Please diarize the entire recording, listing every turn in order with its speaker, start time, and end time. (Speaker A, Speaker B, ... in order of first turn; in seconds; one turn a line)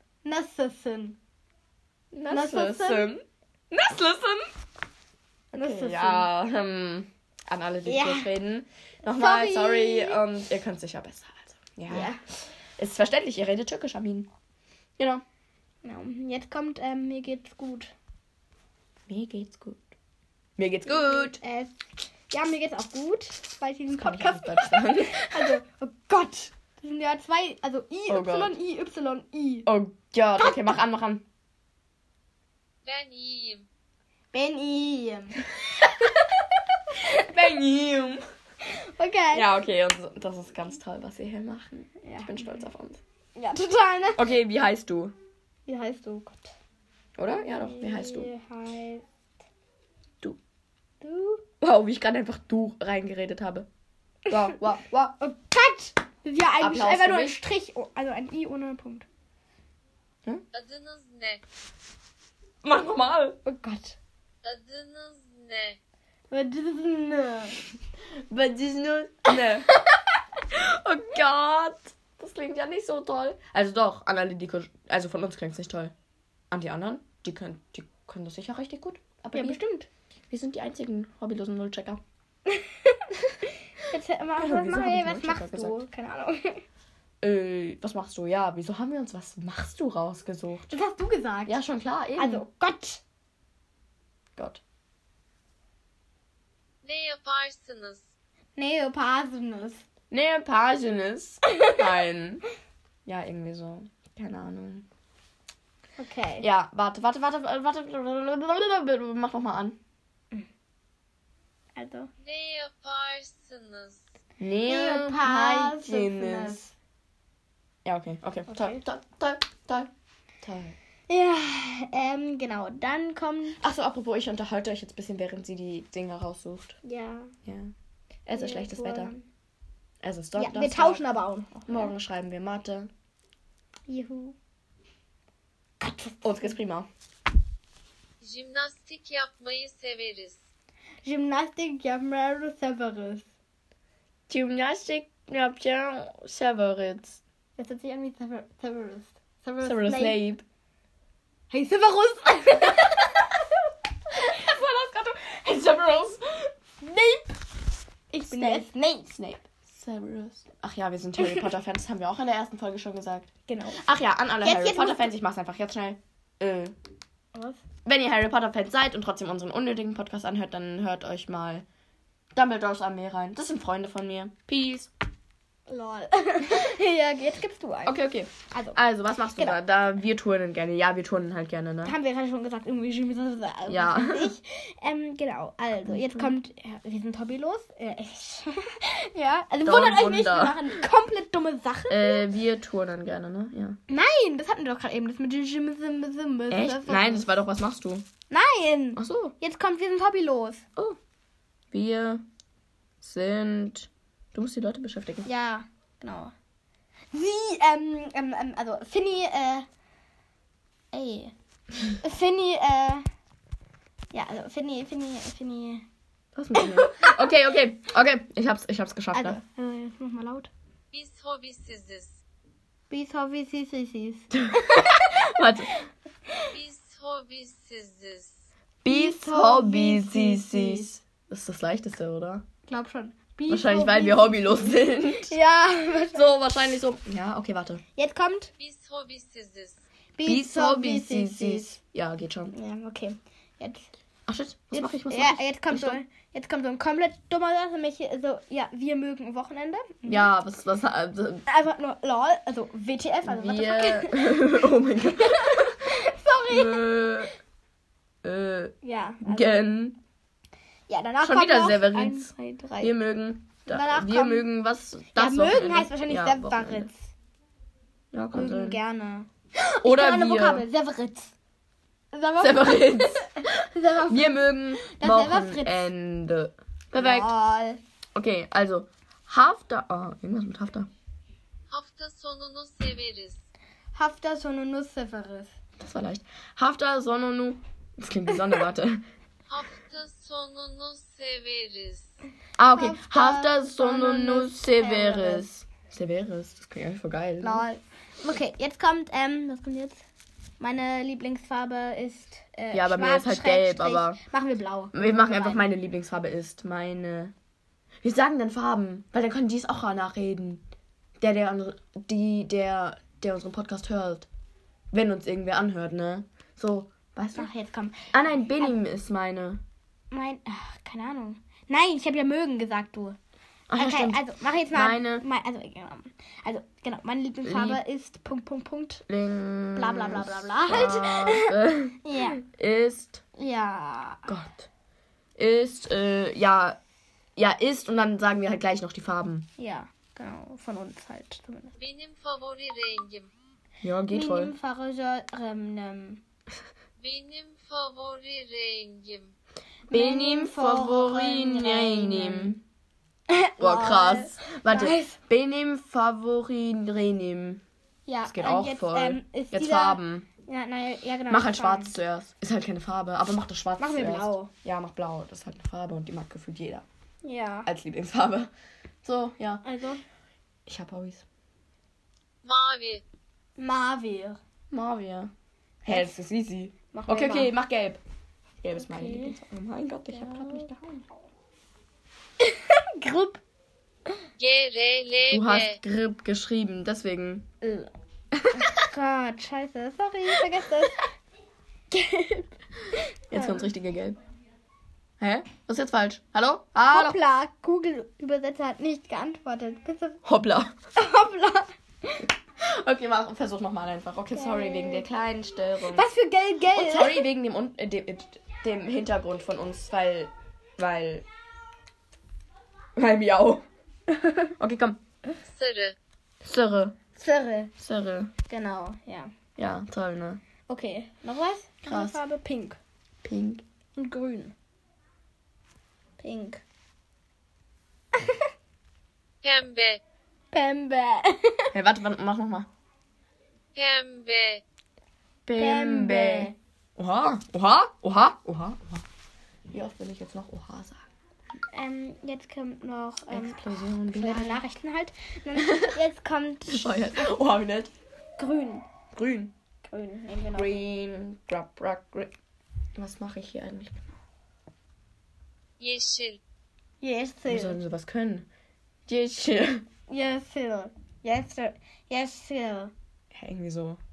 Speaker A: 0.2-1.2
Speaker B: 2.1-4.6
Speaker A: 2.3-3.1
Speaker B: 5.5-12.2
Speaker A: 5.5-6.3
Speaker A: 7.9-8.3
Speaker A: 9.0-10.2
Speaker A: 11.9-12.2
Speaker B: 12.8-14.3
Speaker B: 15.0-15.2
Speaker A: 15.8-17.9
Speaker B: 19.1-19.9
Speaker B: 20.6-21.4
Speaker A: 20.9-29.7
Speaker B: 24.0-25.6
Speaker B: 28.1-28.5
Speaker B: 29.7-31.2
Speaker C: 32.9-33.7
Speaker A: 34.3-37.3
Speaker B: 37.1-38.2
Speaker A: 38.6-39.5
Speaker B: 39.3-43.0
Speaker A: 42.0-42.6
Speaker A: 43.4-44.3
Speaker B: 44.2-45.1
Speaker A: 45.7-46.5
Speaker B: 47.2-48.3
Speaker A: 47.4-49.0
Speaker A: 51.0-51.4
Speaker B: 51.6-53.7
Speaker B: 54.3-55.1
Speaker A: 55.2-59.1
Speaker B: 56.6-57.4
Speaker C: 60.5-61.4
Speaker B: 62.6-63.4
Speaker A: 63.5-64.0
Speaker C: 64.4-65.8
Speaker A: 66.3-67.6
Speaker B: 68.3-69.7
Speaker B: 70.5-75.9
Speaker B: 76.5-79.6
Speaker A: 79.3-79.9
Speaker B: 80.3-82.0
Speaker A: 82.5-86.6
Speaker B: 84.4-85.8
Speaker B: 87.2-90.7
Speaker A: 90.7-91.6
Speaker B: 91.5-92.5
Speaker A: 92.2-93.0
Speaker B: 94.4-94.6
Speaker C: 96.8-98.1
Speaker A: 98.6-99.8
Speaker B: 100.1-102.4
Speaker B: 103.1-104.9
Speaker A: 106.0-106.5
Speaker B: 106.4-109.8
Speaker A: 111.8-112.1
Speaker C: 112.2-114.0
Speaker B: 114.4-116.6
Speaker A: 114.7-116.7
Speaker B: 117.8-119.9
Speaker A: 118.5-118.8
Speaker B: 120.4-120.8
Speaker A: 121.1-123.6
Speaker B: 123.6-126.8
Speaker A: 126.8-127.3
Speaker B: 127.5-127.7
Speaker B: 128.3-129.1
Speaker A: 128.3-129.3
Speaker B: 130.0-131.0
Speaker A: 130.4-131.9
Speaker B: 131.7-132.9
Speaker A: 133.9-134.4
Speaker A: 135.8-136.6
Speaker B: 136.2-136.9
Speaker C: 138.2-140.4
Speaker A: 141.0-143.3
Speaker B: 144.3-147.2
Speaker A: 147.6-150.2
Speaker B: 149.6-150.4
Speaker A: 151.5-153.4
Speaker B: 154.1-157.2
Speaker A: 158.1-159.2
Speaker B: 158.3-166.8
Speaker A: 163.5-163.8
Speaker A: 164.4-165.1
Speaker A: 167.3-167.6
Speaker B: 167.8-171.7
Speaker B: 172.3-174.9
Speaker A: 175.7-178.0
Speaker B: 177.9-181.9
Speaker A: 178.5-178.8
Speaker A: 181.8-192.3
Speaker B: 183.7-184.3
Speaker B: 185.9-186.3
Speaker B: 189.6-190.8
Speaker B: 191.9-193.8
Speaker A: 193.9-197.3
Speaker B: 196.5-198.1
Speaker A: 198.3-200.7
Speaker B: 199.0-199.3
Speaker B: 201.7-202.2
Speaker B: 203.0-205.3
Speaker A: 205.2-206.3
Speaker A: 207.1-209.7
Speaker A: 210.9-211.3
Speaker A: 212.0-213.1
Speaker A: 214.1-215.9
Speaker B: 216.3-219.4
Speaker A: 216.6-217.2
Speaker A: 219.1-220.5
Speaker C: 220.9-222.2
Speaker A: 222.9-225.1
Speaker B: 224.3-225.7
Speaker C: 226.5-228.5
Speaker B: 228.8-232.4
Speaker A: 228.9-230.9
Speaker A: 232.7-236.3
Speaker B: 233.5-235.4
Speaker B: 236.1-237.8
Speaker A: 238.0-238.5
Speaker C: 238.6-239.8
Speaker A: 240.2-241.8
Speaker B: 240.2-242.5
Speaker A: 242.5-243.9
Speaker B: 244.3-246.0
Speaker A: 244.7-250.3
Speaker B: 250.1-251.4
Speaker A: 251.5-257.1
Speaker B: 253.3-255.8
Speaker B: 256.5-257.3
Speaker B: 258.2-260.0
Speaker A: 258.8-259.6
Speaker A: 260.9-262.9
Speaker B: 261.2-266.9
Speaker A: 263.7-264.5
Speaker A: 265.1-267.1
Speaker B: 268.1-268.8
Speaker A: 268.3-269.3
Speaker B: 269.6-270.7
Speaker A: 269.8-271.3
Speaker A: 272.1-275.9
Speaker B: 272.4-273.5
Speaker B: 274.1-277.3
Speaker A: 276.9-277.8
Speaker B: 278.1-280.9
Speaker C: 281.7-283.4
Speaker A: 283.9-285.5
Speaker B: 285.8-289.0
Speaker C: 289.5-292.1
Speaker B: 292.6-297.6
Speaker A: 292.7-295.4
Speaker A: 297.4-300.0
Speaker A: 300.6-305.6
Speaker B: 302.7-304.2
Speaker B: 304.9-307.3
Speaker B: 308.0-310.6
Speaker B: 311.2-314.3
Speaker B: 314.9-317.5
Speaker A: 317.4-318.8
Speaker B: 318.1-319.6
Speaker A: 320.1-323.2
Speaker B: 323.7-325.2
Speaker A: 323.8-329.1
Speaker B: 327.4-327.8
Speaker B: 329.1-333.2
Speaker A: 329.8-332.4
Speaker A: 333.4-334.3
Speaker B: 334.3-334.7
Speaker B: 335.4-336.8
Speaker B: 337.4-339.5
Speaker A: 339.6-341.8
Speaker C: 341.8-343.3
Speaker B: 343.8-344.5
Speaker A: 344.1-346.2
Speaker C: 347.0-349.4
Speaker A: 349.9-352.6
Speaker B: 349.9-352.6
Speaker A: 353.3-355.2
Speaker B: 353.6-357.6
Speaker A: 358.1-361.9
Speaker B: 358.2-360.3
Speaker B: 361.3-366.9
Speaker A: 363.8-364.5
Speaker A: 367.2-367.7
Speaker B: 367.7-368.5
Speaker B: 369.0-369.6
Speaker A: 369.6-370.0
Speaker B: 370.7-371.2
Speaker C: 372.4-373.0
Speaker A: 373.6-374.4
Speaker B: 374.7-375.3
Speaker B: 375.9-378.0
Speaker A: 376.9-377.5
Speaker B: 378.6-381.1
Speaker A: 378.8-379.4
Speaker A: 380.1-380.7
Speaker A: 382.4-383.4
Speaker C: 384.4-385.8
Speaker B: 385.3-387.5
Speaker A: 387.6-387.9
Speaker B: 388.4-388.7
Speaker A: 388.5-391.1
Speaker A: 391.9-393.7
Speaker B: 393.3-394.2
Speaker B: 395.2-397.2
Speaker A: 396.9-400.2
Speaker B: 400.2-400.7
Speaker A: 401.0-402.3
Speaker B: 402.6-406.1
Speaker A: 404.4-405.1
Speaker A: 405.9-407.3
Speaker B: 406.7-411.2
Speaker B: 413.0-413.6
Speaker A: 414.1-414.5
Speaker B: 414.6-415.0
Speaker C: 415.5-416.0
Speaker B: 416.4-417.0
Speaker A: 417.2-417.7
Speaker B: 417.8-418.3
Speaker A: 418.5-419.3
Speaker B: 419.6-420.4
Speaker A: 420.7-422.8
Speaker B: 421.9-422.2
Speaker B: 423.2-423.6
Speaker A: 424.0-424.5
Speaker A: 426.2-426.6
Speaker C: 429.4-430.0
Speaker A: 430.5-431.7
Speaker B: 431.7-432.7
Speaker C: 433.8-434.6
Speaker B: 435.5-439.0
Speaker A: 435.6-436.6
Speaker B: 439.7-441.0
Speaker A: 441.7-447.3
Speaker B: 443.3-444.6
Speaker B: 445.6-446.0
Speaker B: 446.7-447.9
Speaker A: 448.4-448.9
Speaker B: 449.1-449.5
Speaker A: 449.9-450.7
Speaker B: 450.5-452.3
Speaker B: 453.0-454.1
Speaker C: 455.8-456.4
Speaker A: 457.0-457.8
Speaker B: 457.5-458.5
Speaker B: 459.1-459.9
Speaker A: 460.1-462.9
Speaker B: 463.3-464.0